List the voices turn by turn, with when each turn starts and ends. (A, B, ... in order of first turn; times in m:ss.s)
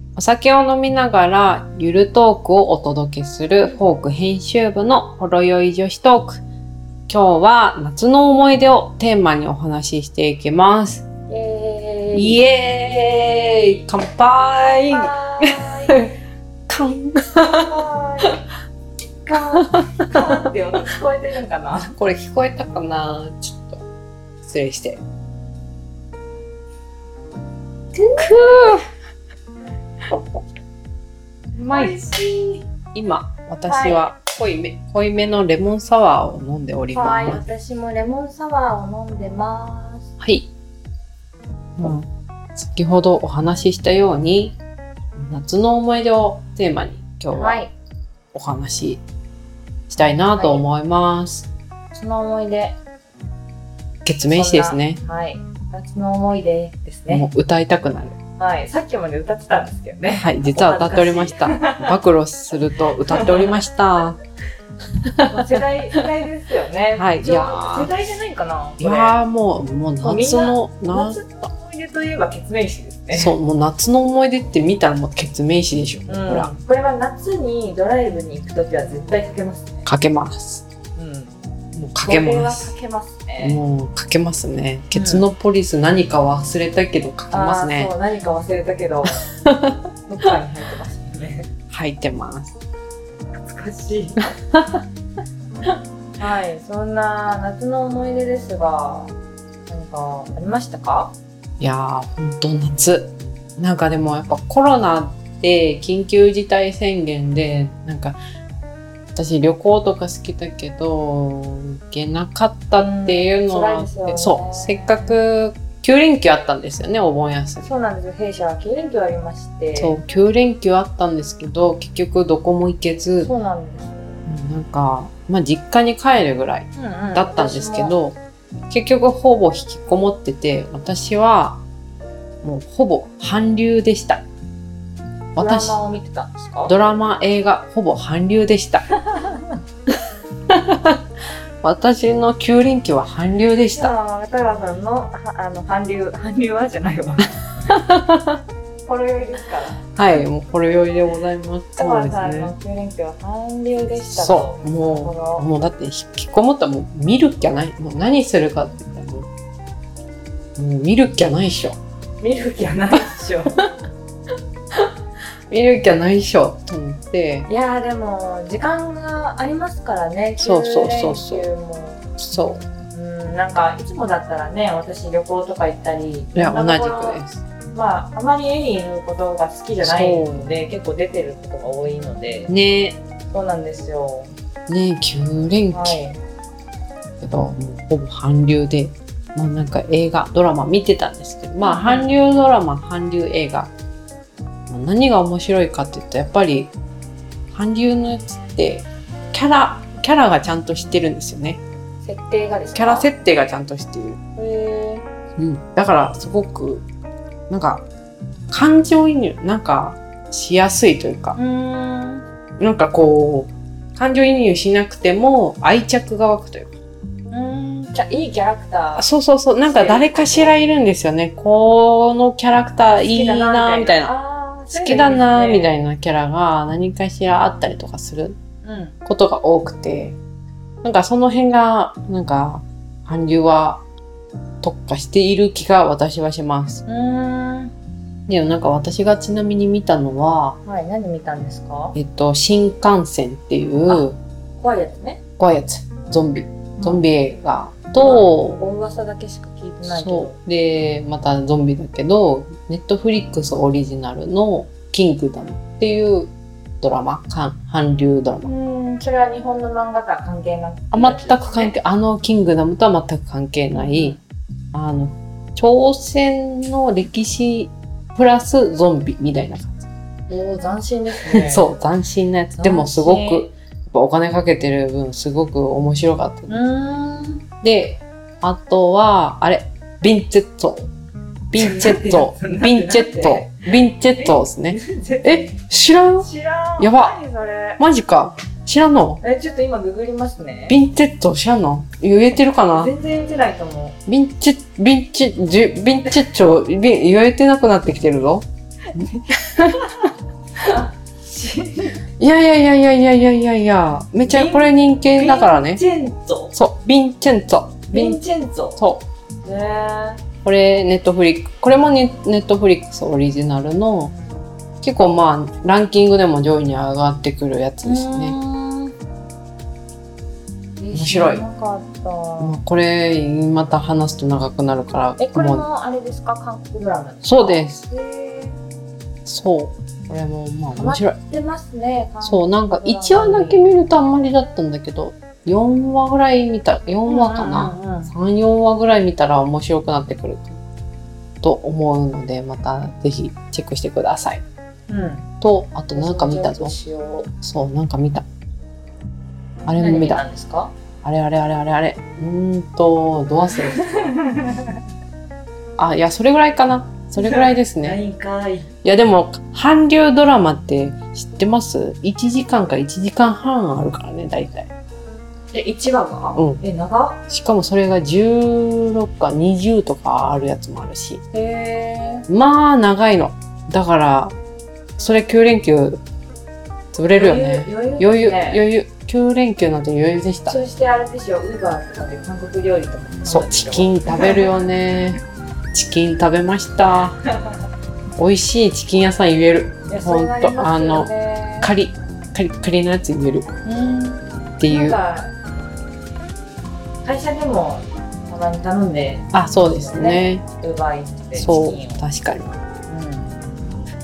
0:00.2-0:06.4 A
0:07.1-0:11.0 A
0:11.3-0:12.4 B
0:12.1-0:16.1 A
0:14.9-0:16.0 B
0:16.7-0:17.7 A
0:17.4-0:18.4 B
0:19.2-0:21.9 B
0:19.7-0:20.1 A
0:21.9-0:23.8 A
0:24.4-0:25.0 A
0:27.9-0:28.8 B
0:28.2-0:28.8 A
0:31.5-0:32.6 B
0:31.7-0:32.1 A
0:32.9-0:37.4 A
0:33.6-0:34.1 B
0:36.9-0:40.1 B
0:40.2-0:40.5 A
0:41.8-0:44.6 A
0:45.2-0:47.6 A
0:47.3-0:47.7 B
0:48.3-0:49.0 A
0:49.9-0:51.5 A
0:50.3-0:50.6 B
0:51.9-0:52.8 B
0:54.0-0:55.0 A
0:54.3-0:57.2 B
0:57.1-0:58.2 A
0:58.4-1:02.0 B
1:00.1-1:04.2 A
1:03.1-1:03.5 B
1:05.2-1:05.4 A
1:05.2-1:09.2 B
1:06.9-1:07.9 A
1:08.8-1:11.2 A
1:10.0-1:13.3 B
1:13.1-1:16.5 A
1:16.1-1:19.8 B
1:19.8-1:20.6 A
1:20.9-1:21.3 B
1:21.7-1:22.7 A
1:22.0-1:23.6 B
1:23.4-1:27.9 A
1:24.9-1:25.2 B
1:27.3-1:29.2 B
1:29.4-1:29.8 A
1:30.1-1:31.5 B
1:31.7-1:32.5 A
1:33.4-1:34.3 B
1:34.5-1:34.8 A
1:36.2-1:39.1 B
1:39.7-1:41.1 B
1:41.6-1:48.2 A
1:49.1-1:57.7 A
1:52.7-1:55.2 B
1:57.6-2:00.0 B
1:59.8-2:03.3 A
2:03.2-2:04.2 B
2:04.2-2:08.2 A
2:06.8-2:08.0 B
2:08.7-2:11.6 A
2:12.4-2:14.2 A
2:15.4-2:15.8 A
2:15.4-2:16.7 B
2:16.6-2:18.9 A
2:18.9-2:19.6 B
2:20.5-2:21.0 A
2:21.6-2:23.9 A
2:23.7-2:27.7 B
2:27.7-2:28.4 A
2:28.8-2:29.8 B
2:29.9-2:32.5 A
2:31.8-2:35.4 B
2:34.1-2:39.3 A
2:40.6-2:41.8 A
2:42.2-2:43.6 B
2:45.5-2:47.5 A
2:47.5-2:52.1 B
2:50.4-2:51.5 A
2:52.2-2:52.6 A
2:52.9-3:02.5 B
2:56.3-2:57.4 A
2:59.8-3:00.5 A
3:02.5-3:03.0 A
3:03.3-3:04.3 B
3:04.7-3:06.0 A
3:05.7-3:06.2 B
3:07.2-3:13.7 A
3:11.6-3:12.1 B
3:14.7-3:16.7 A
3:17.5-3:21.6 A
3:22.0-3:23.1 B
3:22.7-3:24.2 A
3:24.4-3:25.0 B
3:25.4-3:26.8 A
3:27.5-3:27.8 A
3:28.5-3:31.4 A
3:31.3-3:32.2 B
3:32.6-3:36.7 A
3:37.3-3:39.1 B
3:39.0-3:44.1 A
3:39.6-3:40.5 B
3:42.9-3:45.7 B
3:44.7-3:48.4 A
3:48.6-3:49.0 B
3:49.0-3:50.2 A
3:50.8-3:53.8 A
3:54.6-3:56.8 A
3:56.8-3:57.7 B
3:58.3-4:00.6 A
4:00.6-4:02.0 B
4:01.9-4:04.2 A
4:03.9-4:05.2 B
4:05.4-4:08.6 A
4:06.8-4:07.1 B
4:08.0-4:10.4 B
4:09.8-4:18.5 A
4:18.4-4:21.7 B
4:20.9-4:24.2 A
4:23.7-4:24.2 B
4:24.7-4:29.9 A
4:30.3-4:31.7 B
4:31.3-4:36.6 A
4:32.6-4:33.5 B
4:36.5-4:37.4 B
4:37.6-4:40.9 A
4:41.5-4:46.3 A
4:41.6-4:45.6 B
4:46.2-4:47.8 B
4:46.8-4:47.2 A
4:47.8-4:49.2 A
4:49.2-4:50.8 B
4:50.7-4:52.9 A
4:52.7-4:54.0 B
4:54.1-4:58.4 A
4:58.9-5:00.1 B
4:59.0-4:59.8 A
5:00.6-5:02.0 B
5:02.2-5:05.8 A
5:04.2-5:06.5 B
5:06.5-5:08.2 A
5:07.9-5:08.8 B
5:08.8-5:09.0 A
5:09.4-5:10.2 B
5:10.4-5:14.1 A
5:14.8-5:18.4 A
5:17.8-5:18.9 B
5:20.8-5:22.6 B
5:20.9-5:21.4 A
5:22.4-5:25.6 A
5:25.2-5:28.6 B
5:27.2-5:27.8 A
5:29.2-5:31.2 A
5:30.7-5:33.7 B
5:32.2-5:40.6 A
5:37.0-5:38.1 B
5:41.4-5:44.4 A
5:44.9-5:45.3 B
5:45.4-5:46.7 A
5:45.9-5:47.3 B
5:47.4-5:48.2 A
5:49.6-5:50.2 A
5:49.8-5:50.7 B
5:51.0-5:53.8 A
5:53.8-5:54.7 B
5:55.8-5:58.0 A
5:57.2-5:58.7 B
5:58.8-6:04.7 A
6:05.5-6:07.2 B
6:06.3-6:06.6 A
6:07.3-6:11.2 A
6:11.3-6:12.3 B
6:12.3-6:14.4 A
6:15.0-6:16.0 A
6:16.9-6:20.6 A
6:17.1-6:18.6 B
6:20.5-6:24.4 B
6:23.2-6:25.2 A
6:25.7-6:27.2 A
6:26.8-6:27.5 B
6:28.2-6:33.5 A
6:29.9-6:31.7 B
6:33.6-6:35.3 B
6:34.6-6:35.0 A
6:37.0-6:42.0 B
6:39.3-6:40.4 A
6:41.3-6:42.5 A
6:42.9-6:43.3 B